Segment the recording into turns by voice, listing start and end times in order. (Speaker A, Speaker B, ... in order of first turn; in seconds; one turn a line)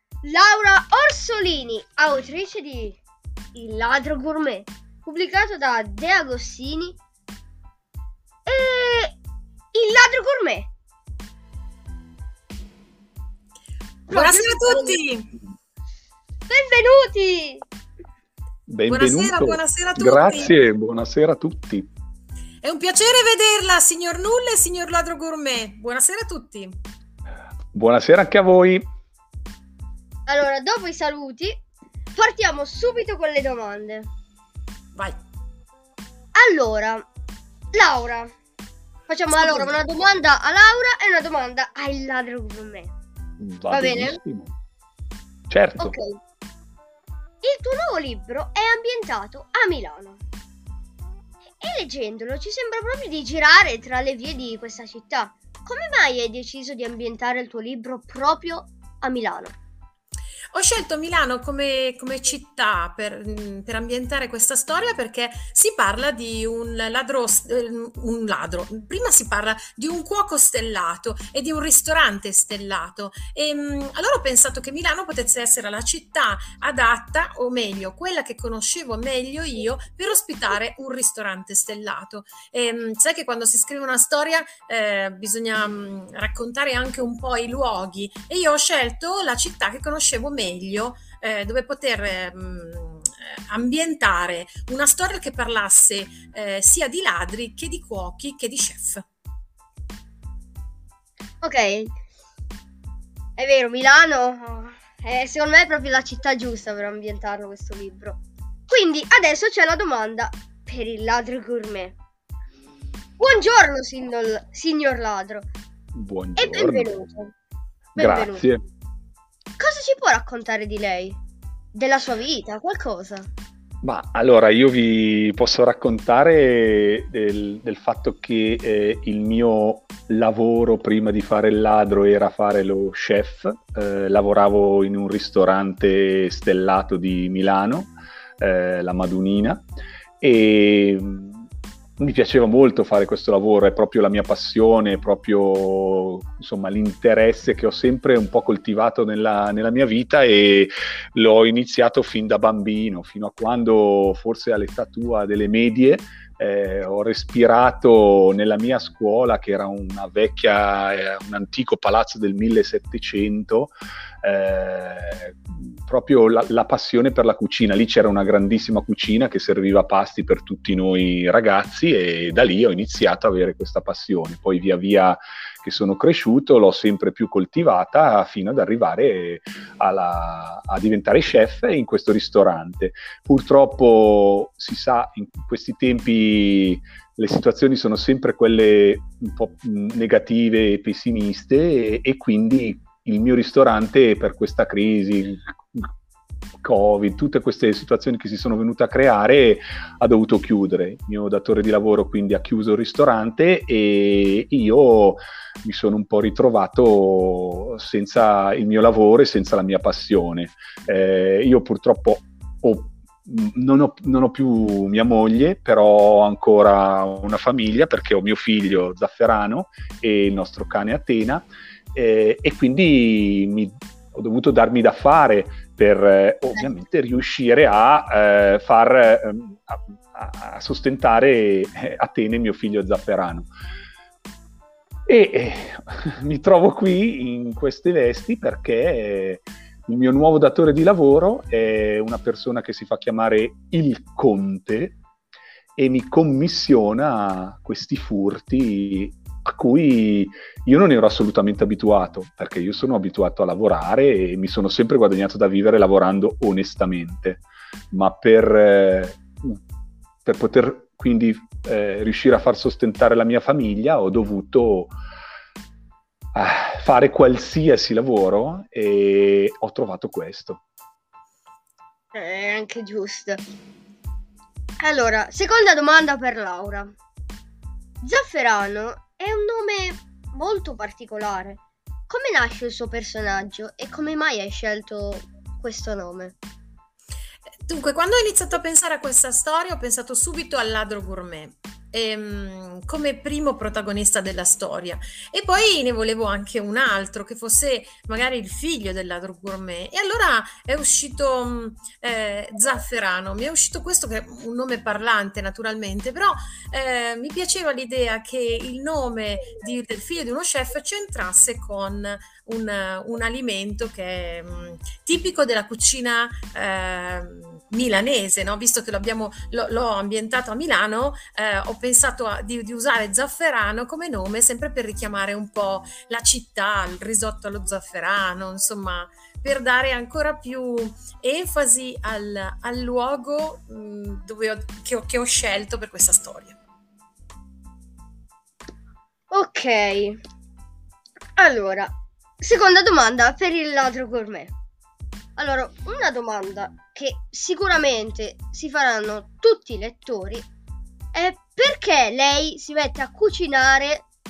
Speaker A: 0.2-3.0
Speaker A: 3.5-7.0
Speaker A: 8.5-9.2
Speaker A: 9.7-10.7
Speaker B: 14.1-15.3
Speaker A: 14.1-15.0
Speaker A: 16.5-17.6
Speaker C: 18.7-21.9
Speaker B: 18.9-20.6
Speaker B: 22.6-26.8
Speaker C: 27.7-28.9
Speaker A: 30.3-31.6
Speaker A: 32.2-34.1
Speaker B: 35.0-35.2
Speaker A: 36.4-37.1
Speaker A: 37.7-38.3
Speaker A: 39.1-42.9
Speaker B: 39.3-39.8
Speaker C: 43.4-44.5
Speaker A: 43.7-44.2
Speaker C: 45.5-46.0
Speaker A: 45.8-46.2
Speaker A: 47.4-50.2
Speaker A: 51.6-59.6
Speaker B: 60.5-99.0
Speaker A: 101.4-101.9
Speaker A: 103.4-112.0
Speaker A: 113.2-115.5
Speaker C: 115.9-116.9
Speaker A: 116.4-117.3
Speaker A: 118.0-118.5
Speaker C: 118.0-118.6
Speaker A: 119.6-121.2
Speaker A: 121.7-123.3
Speaker C: 123.8-139.7
Speaker C: 140.2-141.5
Speaker C: 142.0-195.9
Speaker C: 196.6-233.5
Speaker C: 235.1-245.0
Speaker C: 245.8-259.6
Speaker C: 260.2-264.9
Speaker C: 266.4-270.6
Speaker A: 272.1-273.4
Speaker A: 274.8-276.9
Speaker A: 278.0-286.4
Speaker B: 287.6-336.6
Speaker A: 339.3-340.2
Speaker A: 341.4-344.5
Speaker A: 345.4-350.5
Speaker A: 351.1-354.1